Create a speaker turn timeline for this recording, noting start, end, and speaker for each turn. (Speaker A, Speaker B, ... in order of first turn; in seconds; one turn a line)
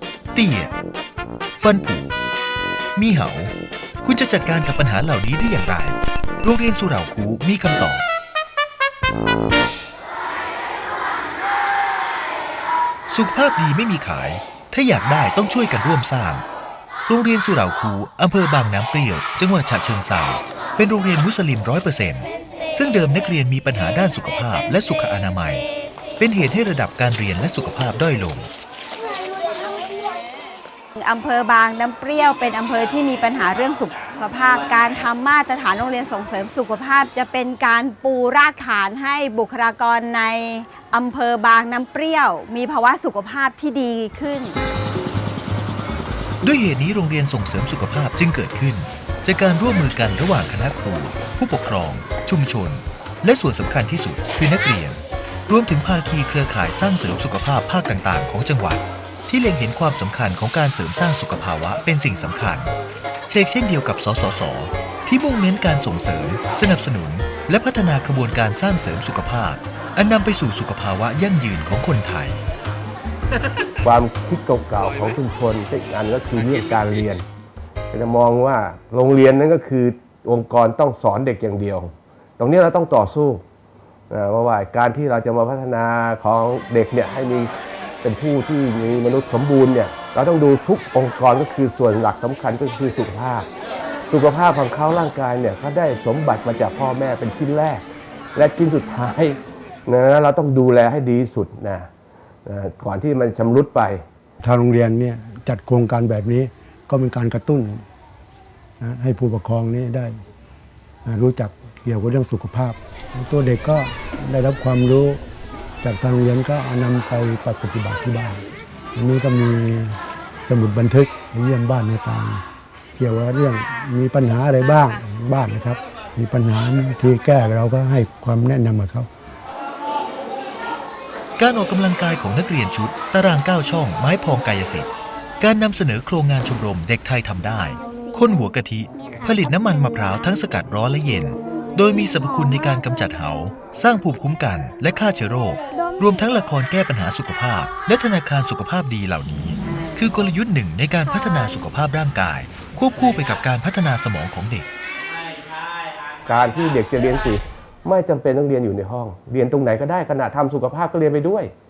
Speaker A: 0.3-0.7
Speaker A: 1.6-2.1
Speaker A: 3.0-8.1
Speaker A: 13.1-16.4
Speaker A: 17.1-25.7
Speaker A: 26.2-28.5
Speaker B: 31.0-44.6
Speaker A: 46.4-62.7
Speaker A: 63.3-72.4
Speaker C: 73.8-77.2
Speaker C: 77.9-83.4
Speaker C: 84.1-87.5
Speaker C: 88.0-93.5
Speaker C: 94.1-101.9
Speaker C: 102.5-104.0
Speaker D: 104.4-107.8
Speaker D: 108.8-110.2
Speaker D: 111.1-115.2
Speaker D: 115.8-118.4
Speaker D: 119.0-122.4
Speaker D: 123.0-129.1
Speaker A: 131.4-134.9
Speaker A: 135.4-154.7
Speaker C: 156.3-161.5